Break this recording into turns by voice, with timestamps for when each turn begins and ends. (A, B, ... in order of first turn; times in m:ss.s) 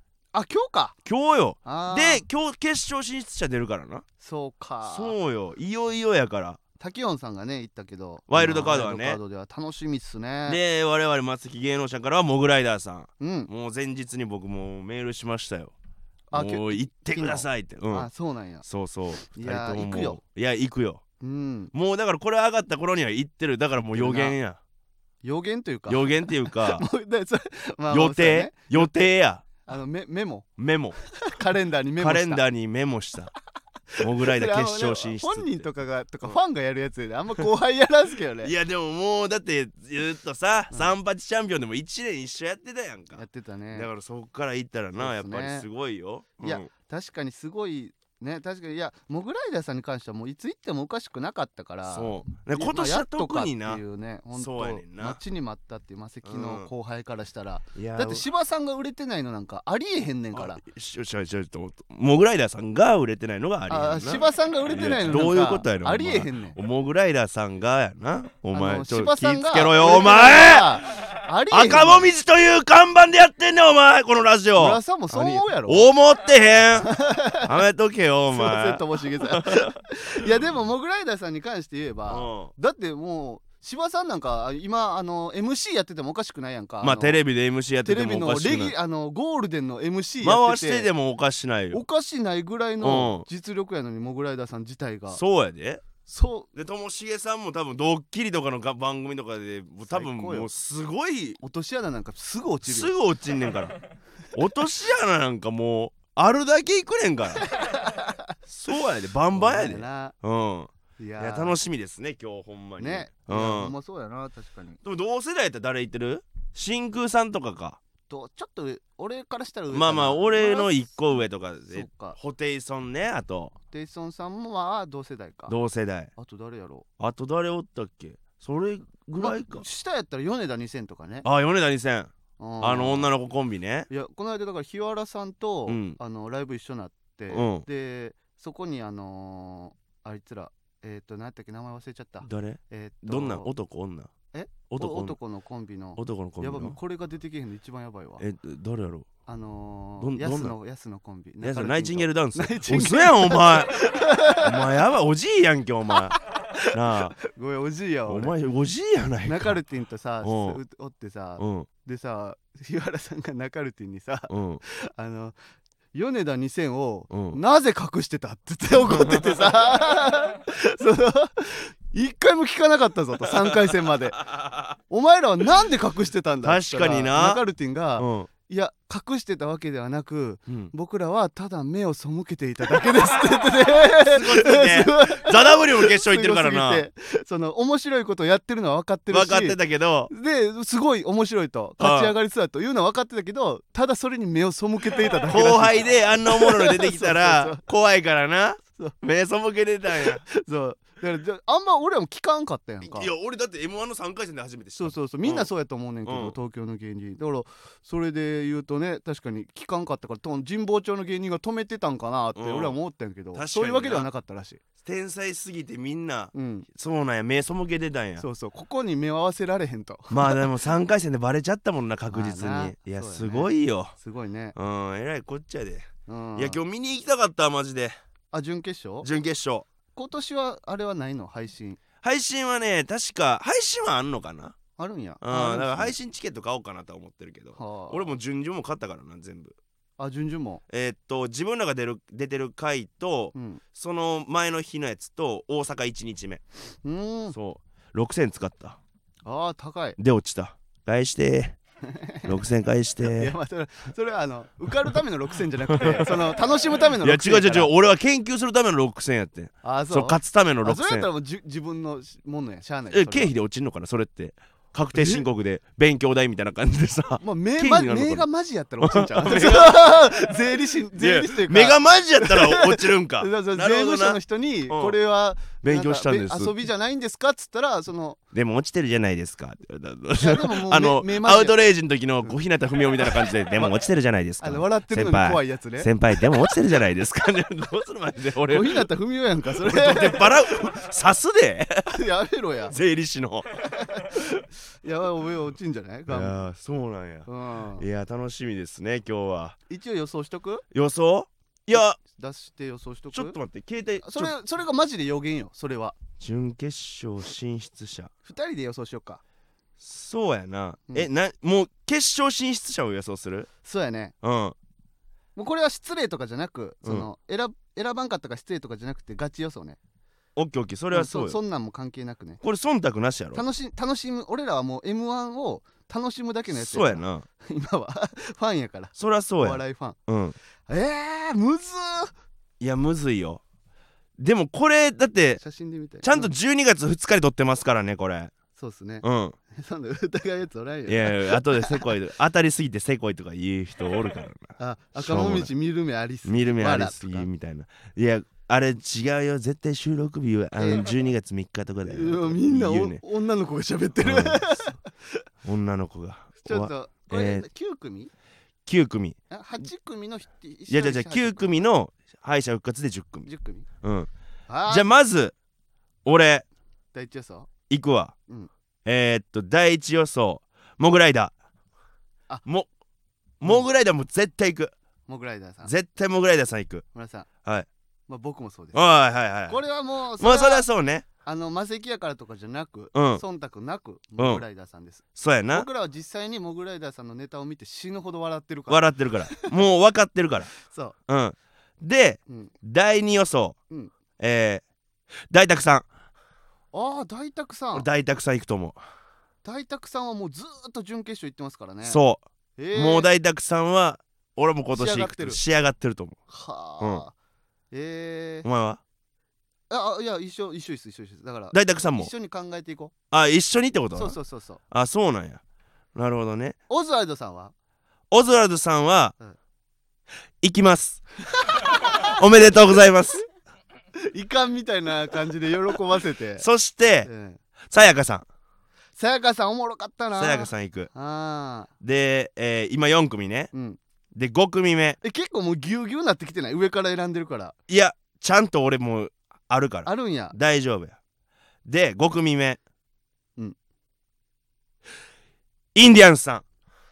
0:00.3-0:01.0 A
0:01.0-0:04.0 B
0:01.6-0:02.2 A
0:04.2-0:05.2 A
0:04.8-0:06.6 B
0:06.8-0:10.6 A
0:08.3-0:09.2 B
0:10.5-0:15.7 B
0:13.2-0:13.5 A
0:16.3-0:18.6 A
0:16.3-0:18.1 B
0:18.6-0:21.0 B
0:19.3-0:20.2 A
0:21.2-0:21.7 A
0:21.7-0:24.6 B
0:23.9-0:24.4 A
0:25.2-0:28.9 A
0:25.9-0:26.9 B
0:27.9-0:29.5 B
0:29.6-0:30.5 A
0:30.6-0:31.0 B
0:31.0-0:32.4 A
0:32.0-0:33.3 B
0:33.9-0:38.5 A
0:34.0-0:35.7 B
0:38.4-0:46.7 B
0:43.1-0:43.9 A
0:45.0-0:45.7 A
0:46.4-1:00.6 A
0:51.9-0:53.8 B
0:54.4-0:55.2 B
0:56.2-0:56.7 B
0:57.8-0:58.2 B
1:00.3-1:16.9 B
1:03.7-1:06.6 A
1:08.5-1:12.1 A
1:14.6-1:15.9 A
1:16.8-1:17.6 A
1:17.4-1:19.8 B
1:18.3-1:27.2 A
1:22.1-1:22.5 B
1:26.8-1:28.8 B
1:27.8-1:30.9 A
1:30.2-1:31.8 B
1:31.7-1:35.2 A
1:32.8-1:33.2 B
1:35.1-1:35.9 B
1:36.0-1:36.5 A
1:36.5-1:41.4 B
1:39.9-1:40.5 A
1:41.4-1:42.9 A
1:42.6-1:43.8 B
1:44.3-1:47.5 B
1:47.4-1:48.3 A
1:48.5-1:53.7 B
1:49.3-1:50.2 A
1:51.0-1:51.6 A
1:52.8-1:54.8 A
1:54.8-1:57.8 B
1:58.1-2:02.2 A
1:59.7-2:03.6 B
2:03.7-2:05.6 A
2:05.5-2:06.1 B
2:06.2-2:06.9 A
2:07.0-2:09.7 B
2:09.2-2:11.3 A
2:11.2-2:13.9 B
2:12.4-2:13.1 A
2:13.9-2:23.5 A
2:15.7-2:16.0 B
2:17.3-2:17.7 B
2:22.2-2:24.1 B
2:24.3-2:28.2 A
2:24.7-2:25.2 B
2:26.0-2:26.8 B
2:28.2-2:29.1 B
2:29.3-2:34.7 A
2:30.0-2:30.6 B
2:31.4-2:33.8 B
2:34.4-2:37.2 B
2:36.0-2:38.3 A
2:38.1-2:39.6 B
2:39.2-2:45.4 A
2:40.2-2:40.6 B
2:41.4-2:41.7 B
2:44.3-2:44.6 B
2:45.9-2:54.2 A
2:47.1-2:47.4 B
2:48.8-2:49.5 B
2:53.4-2:54.8 B
2:54.8-3:09.6 A
2:56.4-2:57.4 B
2:58.0-2:58.3 B
3:03.6-3:06.9 B
3:09.1-3:10.1 B
3:10.1-3:17.6 A
3:11.8-3:12.1 B
3:15.3-3:20.2 B
3:20.0-3:23.1 A
3:22.8-3:25.5 B
3:24.8-3:34.6 A
3:26.0-3:26.4 B
3:32.3-3:32.8 B
3:33.3-3:34.1 B
3:34.8-3:38.2 B
3:36.3-3:36.7 A
3:38.2-3:40.4 A
3:40.1-3:44.0 B
3:42.1-3:44.6 A
3:44.5-3:48.0 B
3:46.1-3:46.6 A
3:48.3-3:49.1 A
3:49.0-3:49.7 B
3:50.0-3:51.8 A
3:52.0-3:54.6 B
3:54.8-3:56.0 A
3:55.2-3:59.5 B
3:57.6-3:58.2 A
4:00.0-4:00.6 A
4:00.7-4:06.4 B
4:03.3-4:03.6 A
4:06.8-4:07.4 A
4:07.3-4:08.8 B
4:09.2-4:10.0 A
4:10.0-4:11.6 B
4:11.8-4:12.4 A
4:12.2-4:13.3 B
4:13.0-4:17.7 A
4:15.7-4:16.3 B
4:17.0-4:21.1 B
4:19.6-4:23.3 A
4:22.9-4:28.3 B
4:24.9-4:25.3 A
4:27.2-4:38.2 A
4:28.8-4:30.1 B
4:30.9-4:35.0 B
4:35.6-4:36.6 B
4:38.3-4:48.8 B
4:40.2-4:41.6 A
4:43.0-4:43.8 A
4:44.4-4:45.9 A
4:48.5-4:50.6 A
4:49.6-4:52.0 B
4:51.9-4:52.8 A
4:52.7-4:53.6 B
4:53.6-4:56.4 A
4:56.1-4:57.3 B
4:57.3-4:57.8 A
4:57.8-4:59.6 B
4:59.7-5:00.7 A
5:00.7-5:02.0 B
5:01.7-5:03.4 A
5:03.1-5:04.3 B
5:04.0-5:06.0 A
5:06.2-5:08.1 B
5:08.2-5:09.2 A
5:09.8-5:13.5 B
5:13.6-5:14.1 A
5:14.2-5:14.6 B
5:15.4-5:19.8 A
5:20.4-5:21.4 B
5:20.9-5:22.4 A
5:22.4-5:23.4 B
5:23.3-5:30.0 A
5:26.5-5:27.2 B
5:29.0-5:30.4 B
5:30.7-5:32.1 A
5:32.6-5:33.4 B
5:34.2-5:35.4 B
5:35.4-5:36.3 A
5:36.0-5:38.3 B
5:38.6-5:41.9 A
5:39.0-5:39.4 B
5:40.9-5:45.5 B
5:44.6-5:47.3 A
5:46.2-5:53.0 B
5:50.6-5:51.0 A
5:51.9-5:55.2 A
5:54.0-5:54.8 B
5:55.4-5:57.5 B
5:56.4-5:58.1 A
5:58.7-5:59.2 B
5:59.3-6:01.6 A
6:00.7-6:03.3 B
6:03.3-6:03.7 A
6:03.8-6:04.1 B
6:04.5-6:04.9 A
6:04.7-6:05.3 B
6:06.0-6:06.4 B
6:06.9-6:07.5 A
6:07.7-6:08.2 B
6:08.8-6:11.3 B
6:13.4-6:14.7 B
6:15.1-6:15.7 A
6:15.6-6:16.8 B
6:16.9-6:17.3 A
6:18.1-6:18.8 A
6:18.7-6:19.6 B
6:19.5-6:20.7 A
6:20.2-6:21.0 B
6:21.2-6:29.6 A
6:22.9-6:23.2 B
6:24.2-6:24.4 B
6:25.2-6:25.7 B
6:28.7-6:30.5 B
6:30.6-6:31.0 A
6:31.1-6:33.6 B
6:34.2-6:34.6 B
6:35.3-6:35.9 B
6:36.7-6:37.9 A
6:37.7-6:38.8 B
6:39.4-6:42.0 A
6:41.8-6:42.2 B
6:42.6-6:43.1 A
6:42.7-6:46.2 B
6:44.7-6:45.4 A
6:46.3-6:47.1 A
6:46.8-6:47.0 B
6:47.7-6:48.5 A
6:48.4-6:48.8 B
6:49.7-6:52.9 A
6:51.5-6:52.1 B
6:53.1-6:54.2 B
6:54.0-6:54.6 A
6:54.7-6:55.4 B
6:56.0-6:56.6 B
6:56.7-6:57.5 A
6:58.1-6:59.2 B
7:00.4-7:01.0 B
7:01.3-7:02.2 A
7:01.6-7:03.3 B
7:04.0-7:06.5 A
7:06.4-7:07.1 B
7:07.0-7:07.4 A
7:07.7-7:08.2 B
7:09.0-7:11.7 A
7:10.2-7:10.9 B
7:11.8-7:13.5 B
7:13.5-7:13.8 A
7:14.1-7:15.0 B
7:15.0-7:17.6 A
7:17.7-7:21.0 B
7:19.8-7:20.4 A
7:21.7-7:22.6 B
7:25.8-7:26.4 B